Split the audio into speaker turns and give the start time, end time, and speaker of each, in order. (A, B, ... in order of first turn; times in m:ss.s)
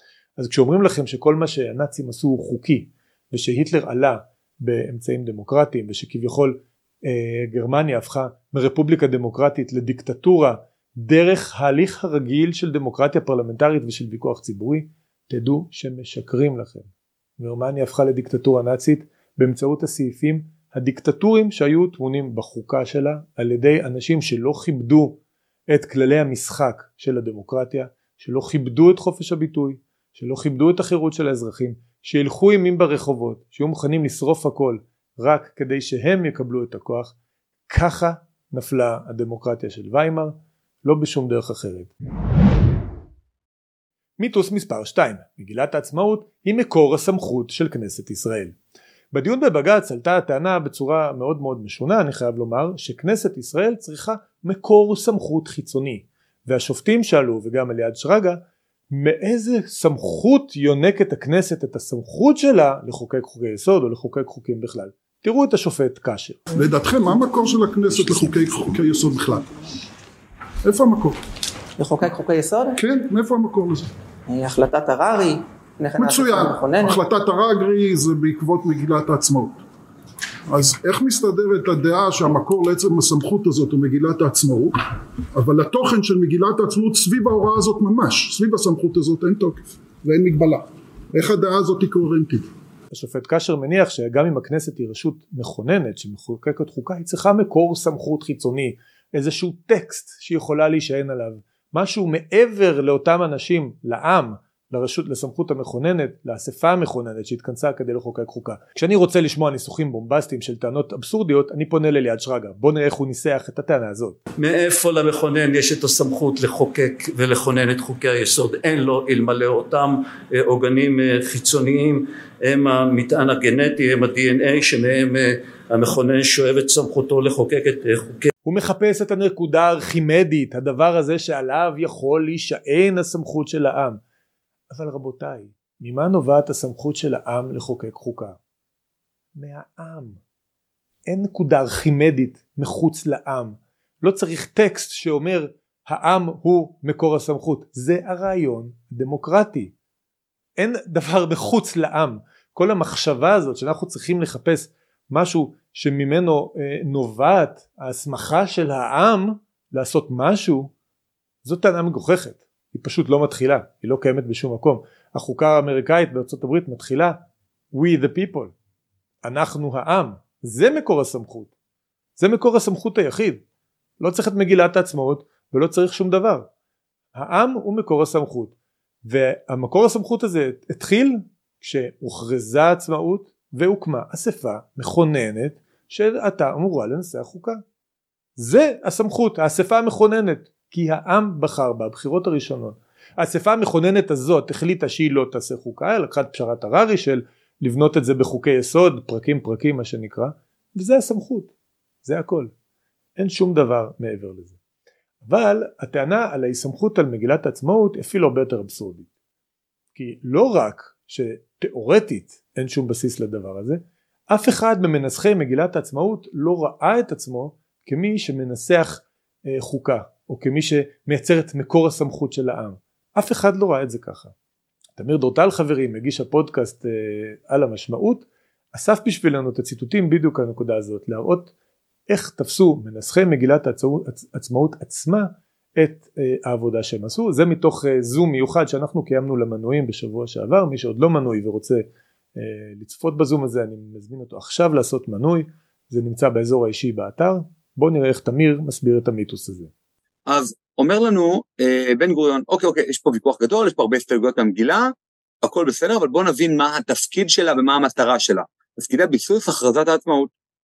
0:00.4-0:16.9 A
0:17.4-0:25.2 A
0:25.7-0:37.1 A
0:37.7-0:41.9 A
0:44.2-0:48.5 A
0:49.1-1:06.4 A
1:06.6-1:09.5 B
1:10.6-1:11.2 B
1:11.8-1:12.8 C
1:12.8-1:13.9 B
1:14.3-1:17.0 C
1:16.0-1:19.6 B
1:20.5-1:24.8 B
1:25.4-1:32.5 B
1:32.9-1:54.2 A
1:54.4-2:08.3 D
2:08.4-2:14.0 A
2:14.7-2:18.4 A
2:19.4-2:20.2 A
2:21.1-2:29.7 A
2:30.6-2:40.7 A
2:41.4-2:47.2 A
2:47.7-2:48.5 A
2:49.2-2:51.5 A
2:52.2-2:53.4 A
2:54.0-2:56.5 A
2:57.2-2:58.5 A
2:59.1-3:07.6 A
3:08.4-3:21.5 A
3:22.0-3:22.5 A
3:23.2-3:24.6 A
3:25.2-3:29.1 A
3:30.0-3:44.3 A
3:45.0-3:51.5 A
3:52.1-4:01.8 A
4:02.4-4:09.7 A
4:10.3-4:14.9 E
4:15.4-4:20.3 E